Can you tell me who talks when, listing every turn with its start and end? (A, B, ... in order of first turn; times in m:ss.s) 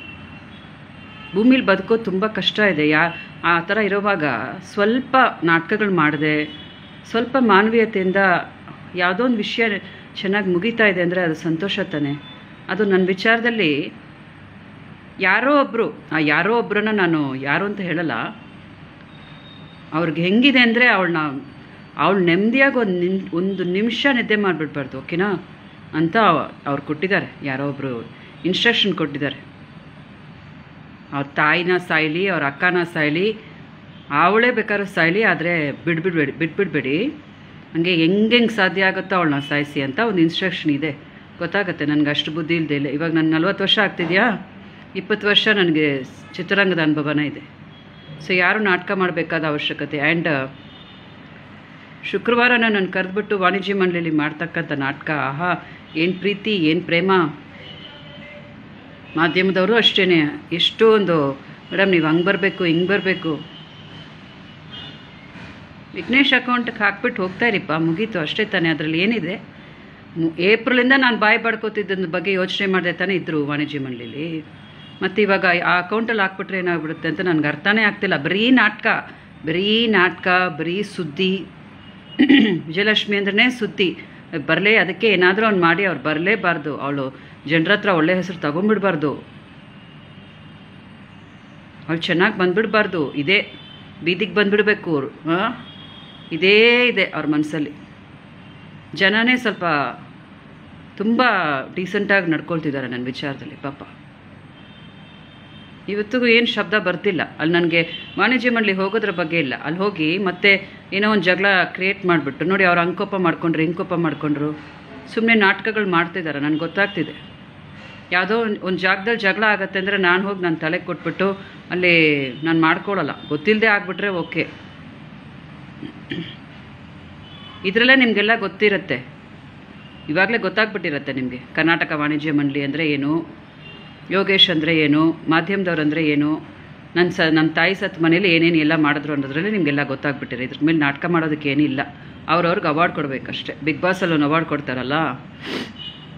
0:01.3-0:06.5 A
0:07.0-0:08.3 A
0:09.0-0:12.2 A
0:12.7-0:13.7 A
0:15.2-0:18.2 A
0:19.9-0:21.4 A
0:22.0-0:25.3 A
0:25.9-0:29.4 A
0:31.1-0:33.3 A
0:34.2-0:37.1 A
0:37.7-0:44.3 A
0:44.9-0:47.4 A
0:48.2-0:50.5 A
0:52.0-0:57.2 A
0:59.2-1:03.4 A
1:05.9-1:09.4 A
1:10.2-1:14.4 A
1:15.0-1:21.4 A
1:22.2-1:29.2 A
1:31.9-1:33.4 A
1:34.0-1:35.5 A
1:36.3-1:37.7 A
1:39.0-1:39.9 A
1:41.0-1:43.9 A
1:45.9-1:54.5 A
1:55.1-1:57.2 A
1:58.1-2:04.5 A
2:07.6-2:09.0 A
2:10.1-2:13.2 A
2:14.1-2:16.4 A
2:16.9-2:25.1 A